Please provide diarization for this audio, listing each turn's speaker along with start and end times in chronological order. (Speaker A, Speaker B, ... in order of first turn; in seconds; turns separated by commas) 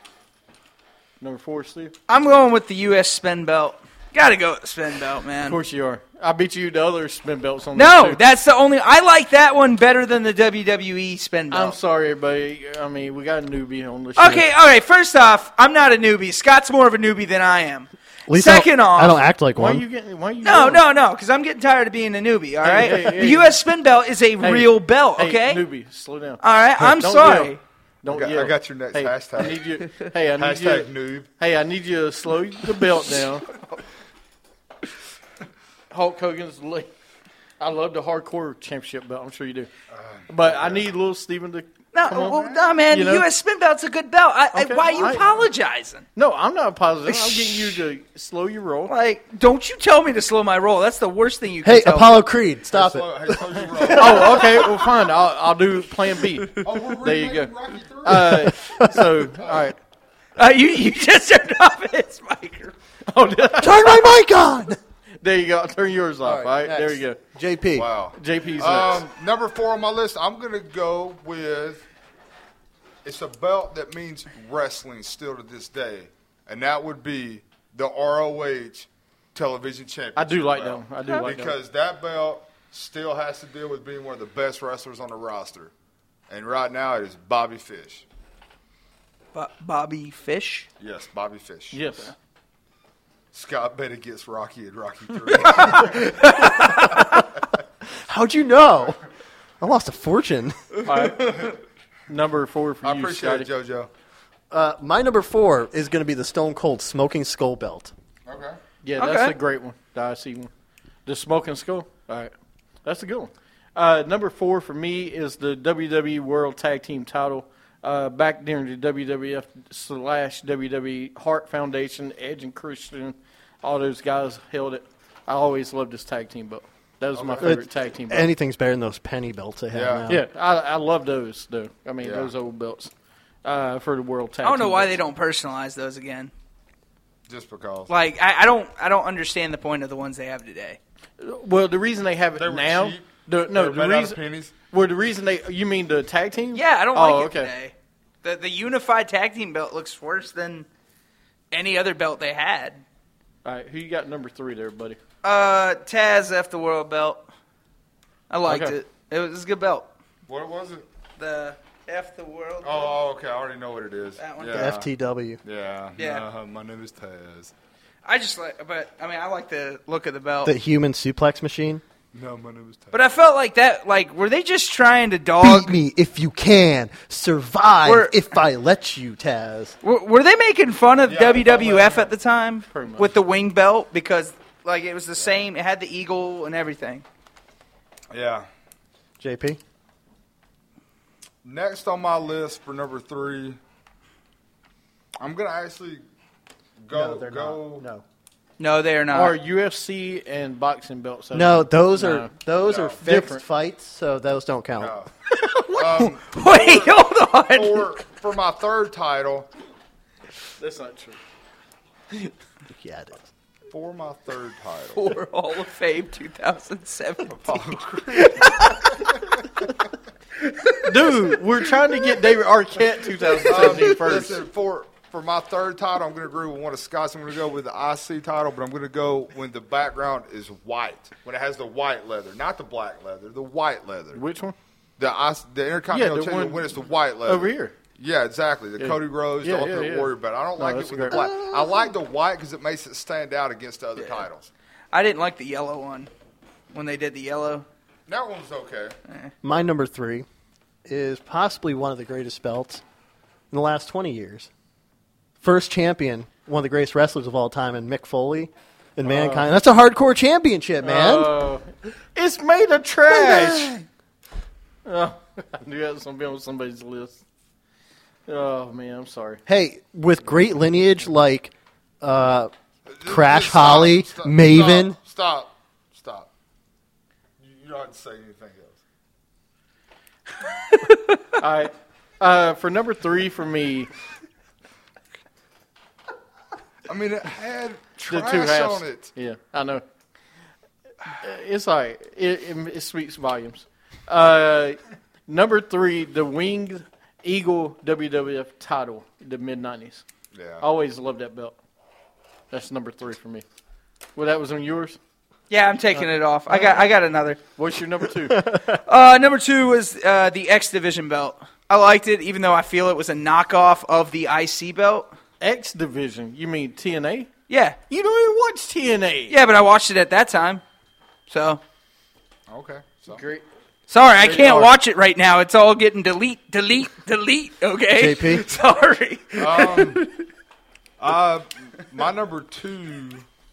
Speaker A: 1.2-1.9, Speaker B: 2.1-5.6, Speaker A: 5.4-8.2, Speaker B: 7.7-11.8, Speaker A: 11.5-14.4, Speaker B: 14.2-19.2, Speaker C: 18.3-19.8, Speaker A: 19.5-20.9, Speaker B: 20.4-25.6, Speaker A: 22.6-23.6, Speaker A: 24.4-33.5, Speaker B: 26.4-27.6, Speaker D: 28.1-29.6, Speaker D: 30.4-31.3, Speaker B: 33.0-33.8, Speaker A: 35.9-36.9, Speaker A: 37.6-39.7, Speaker D: 39.9-40.8, Speaker A: 40.3-43.3, Speaker B: 41.9-46.0, Speaker D: 42.3-42.8, Speaker A: 44.5-45.5, Speaker A: 46.1-48.9, Speaker B: 47.0-47.8, Speaker B: 48.9-52.3, Speaker C: 51.6-54.6, Speaker D: 52.7-54.8, Speaker A: 53.8-57.5, Speaker D: 56.6-58.4, Speaker A: 58.0-59.8, Speaker C: 58.1-59.0, Speaker D: 59.4-59.7, Speaker B: 60.4-62.7, Speaker A: 63.1-64.1, Speaker C: 63.6-64.8, Speaker A: 65.2-67.2, Speaker C: 66.2-67.9, Speaker D: 67.7-71.8, Speaker A: 68.1-69.0, Speaker D: 73.0-85.7, Speaker A: 80.1-81.5, Speaker D: 86.3-88.0, Speaker B: 89.3-90.7, Speaker D: 90.8-91.8, Speaker A: 91.7-92.1, Speaker D: 93.3-96.3, Speaker B: 95.3-97.2, Speaker C: 96.4-97.0, Speaker C: 98.0-99.0, Speaker C: 99.6-100.5, Speaker A: 100.8-101.5, Speaker B: 101.2-101.5, Speaker A: 102.1-103.5, Speaker D: 102.8-103.9, Speaker C: 104.5-107.9, Speaker D: 108.2-108.6, Speaker A: 108.8-110.5, Speaker B: 109.0-109.3, Speaker A: 111.0-112.3, Speaker A: 112.8-128.3, Speaker D: 127.1-127.5, Speaker C: 127.4-130.2, Speaker D: 129.7-130.1, Speaker A: 130.1-132.9, Speaker D: 132.0-132.3, Speaker A: 133.4-135.0, Speaker B: 134.4-136.3, Speaker D: 137.3-137.9, Speaker B: 137.9-140.8, Speaker A: 141.2-144.2, Speaker D: 142.4-144.5, Speaker A: 144.7-147.5, Speaker B: 146.5-150.7, Speaker B: 151.5-152.8, Speaker A: 153.4-155.0, Speaker B: 155.2-157.3, Speaker B: 158.3-159.9, Speaker A: 158.5-158.8, Speaker D: 160.3-160.9, Speaker B: 161.2-163.0, Speaker D: 162.6-164.9, Speaker B: 164.2-164.7, Speaker C: 164.5-165.4, Speaker D: 165.4-167.5, Speaker B: 165.9-166.2, Speaker B: 168.0-170.5, Speaker C: 170.4-171.8, Speaker D: 172.1-173.1, Speaker B: 172.9-175.8, Speaker C: 175.4-179.8, Speaker B: 177.8-178.2, Speaker B: 179.8-187.0, Speaker D: 181.1-182.1, Speaker A: 182.7-183.1, Speaker D: 185.2-185.4, Speaker D: 188.1-188.4, Speaker C: 189.2-189.6, Speaker D: 191.4-193.6, Speaker D: 195.2-196.0, Speaker D: 196.8-197.8, Speaker C: 196.9-198.0, Speaker B: 198.6-199.3, Speaker A: 199.1-202.3, Speaker C: 201.3-205.0, Speaker D: 202.6-203.0, Speaker A: 203.0-203.4, Speaker D: 204.8-205.1, Speaker B: 205.4-208.0, Speaker D: 205.7-209.5, Speaker A: 210.6-211.2, Speaker C: 212.8-213.3, Speaker D: 213.7-215.1, Speaker B: 214.9-219.4, Speaker D: 217.2-219.1, Speaker B: 220.4-221.2, Speaker A: 220.8-224.4, Speaker D: 223.4-234.2, Speaker A: 234.1-234.6, Speaker D: 235.0-244.5, Speaker A: 235.9-237.7, Speaker A: 238.8-241.3, Speaker C: 241.1-241.8, Speaker B: 244.0-244.3, Speaker B: 244.9-246.1, Speaker B: 246.7-247.6, Speaker D: 248.1-248.9, Speaker C: 249.4-250.2, Speaker C: 250.9-252.8, Speaker C: 253.5-254.5, Speaker C: 255.4-261.3, Speaker A: 259.0-259.5, Speaker A: 260.8-263.8, Speaker C: 263.1-263.7, Speaker A: 264.8-267.2, Speaker A: 268.3-269.4, Speaker C: 269.4-272.5, Speaker D: 272.9-276.3, Speaker C: 273.0-275.0, Speaker D: 277.4-278.8, Speaker B: 280.7-281.2, Speaker A: 281.4-283.9, Speaker D: 286.9-289.1, Speaker A: 288.1-289.8, Speaker A: 291.1-300.0, Speaker D: 300.3-300.6, Speaker A: 300.6-301.6, Speaker A: 302.5-303.4, Speaker A: 304.1-305.0, Speaker B: 305.5-307.4, Speaker A: 307.6-308.5, Speaker C: 308.2-308.7, Speaker B: 308.6-315.1, Speaker A: 315.4-317.3, Speaker B: 317.5-317.8, Speaker A: 317.9-319.4, Speaker B: 319.3-320.6, Speaker B: 321.3-321.6, Speaker D: 322.5-323.2, Speaker A: 323.1-323.4, Speaker B: 323.9-330.2, Speaker A: 324.1-324.8, Speaker C: 327.9-328.5, Speaker D: 329.4-330.0, Speaker D: 331.0-333.2